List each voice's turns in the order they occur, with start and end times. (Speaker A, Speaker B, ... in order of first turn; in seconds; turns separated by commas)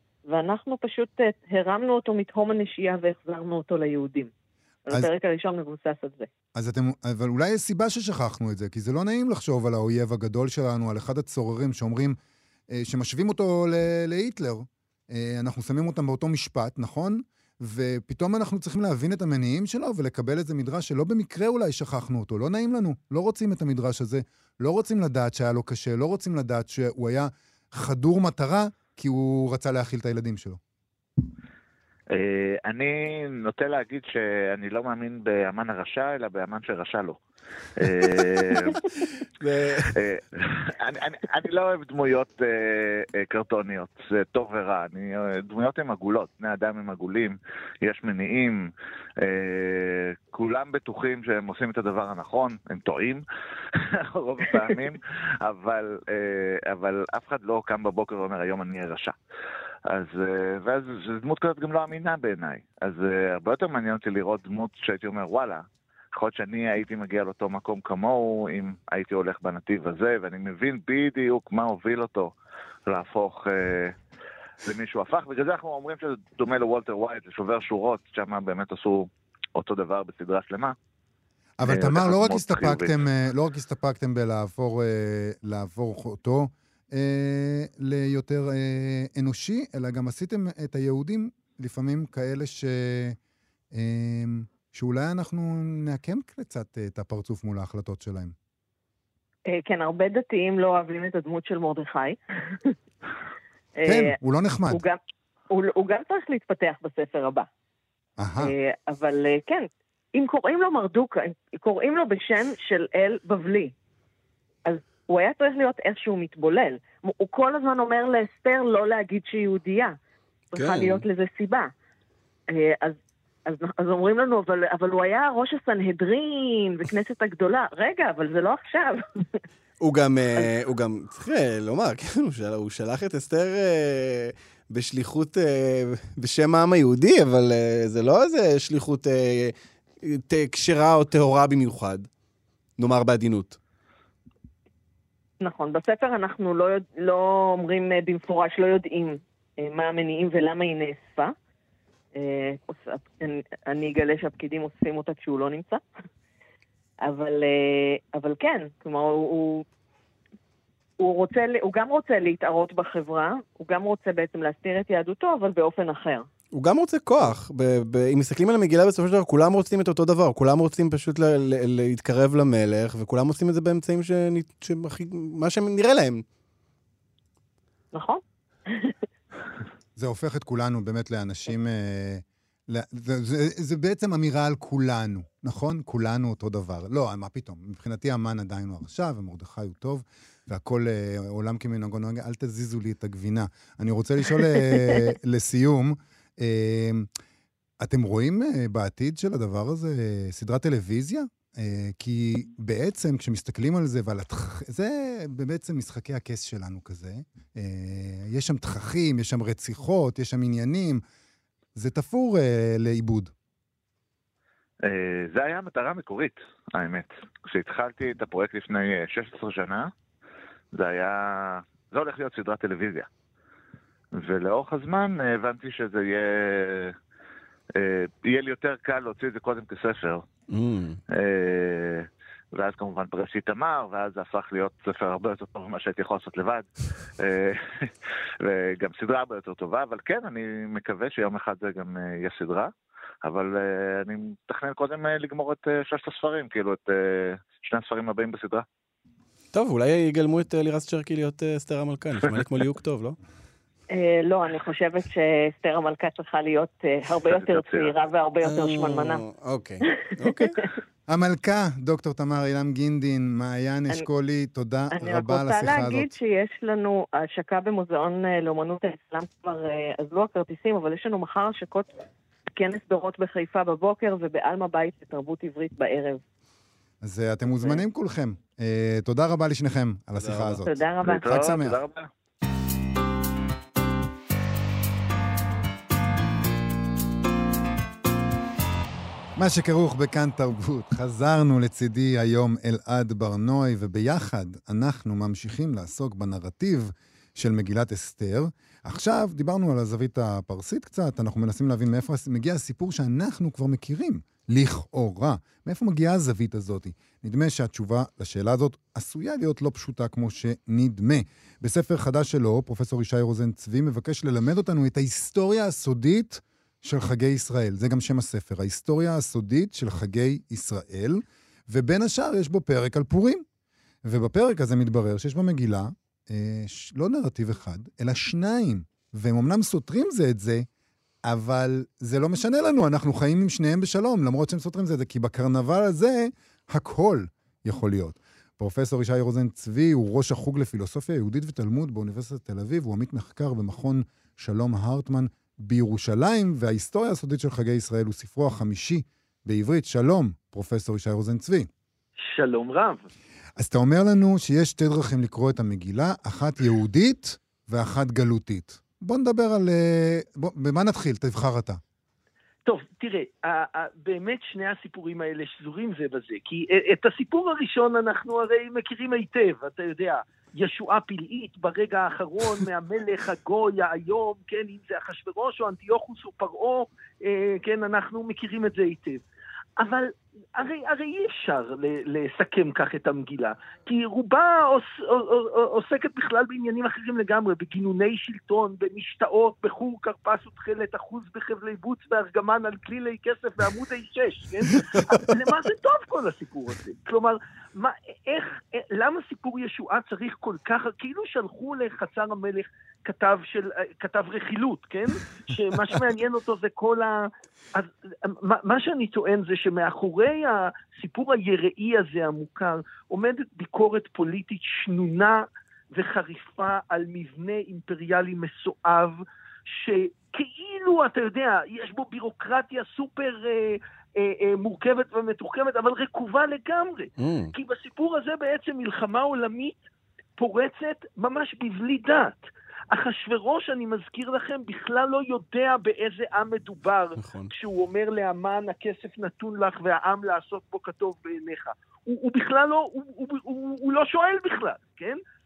Speaker A: 0.2-4.3, Speaker A: 4.8-6.3, Speaker B: 6.5-12.2, Speaker B: 12.7-30.6, Speaker C: 32.1-37.2, Speaker C: 37.8-38.9, Speaker D: 37.9-40.0, Speaker C: 39.9-53.2, Speaker C: 53.8-59.1, Speaker C: 59.9-72.3, Speaker C: 72.9-74.0, Speaker C: 74.6-80.8, Speaker B: 81.6-93.2, Speaker C: 81.7-83.0, Speaker B: 93.7-98.3, Speaker A: 99.5-102.8, Speaker A: 103.8-104.2, Speaker B: 103.8-104.8, Speaker A: 104.7-105.0, Speaker A: 105.5-107.5, Speaker B: 108.2-108.5, Speaker A: 108.4-113.7, Speaker A: 114.7-120.0, Speaker A: 120.5-121.7, Speaker D: 120.5-121.0, Speaker A: 122.5-129.4, Speaker D: 129.8-142.1, Speaker D: 142.8-143.6, Speaker A: 145.4-151.3, Speaker A: 152.2-155.8, Speaker A: 157.0-159.7, Speaker A: 161.0-166.3, Speaker D: 166.5-176.2, Speaker A: 177.9-178.9, Speaker B: 180.0-197.1, Speaker B: 197.8-211.0, Speaker B: 211.8-213.3, Speaker C: 214.8-219.9, Speaker C: 220.8-223.1, Speaker C: 224.1-227.0, Speaker C: 227.8-230.3, Speaker D: 230.5-231.0, Speaker C: 231.1-242.7, Speaker C: 243.2-248.7, Speaker D: 249.5-253.2, Speaker A: 253.9-259.2, Speaker C: 257.3-257.9, Speaker D: 258.4-260.6, Speaker A: 259.9-260.1, Speaker B: 261.1-266.1, Speaker A: 264.9-271.9, Speaker A: 272.6-276.2, Speaker B: 277.0-281.8, Speaker D: 280.2-280.6, Speaker A: 280.6-281.3, Speaker C: 281.0-282.1, Speaker B: 289.4-323.4, Speaker B: 324.0-330.7, Speaker B: 331.3-351.7, Speaker E: 352.2-353.1, Speaker B: 353.6-361.8, Speaker E: 362.7-379.2, Speaker E: 379.8-429.8, Speaker D: 394.7-395.3, Speaker D: 427.2-427.5, Speaker E: 430.4-445.2, Speaker D: 437.2-437.5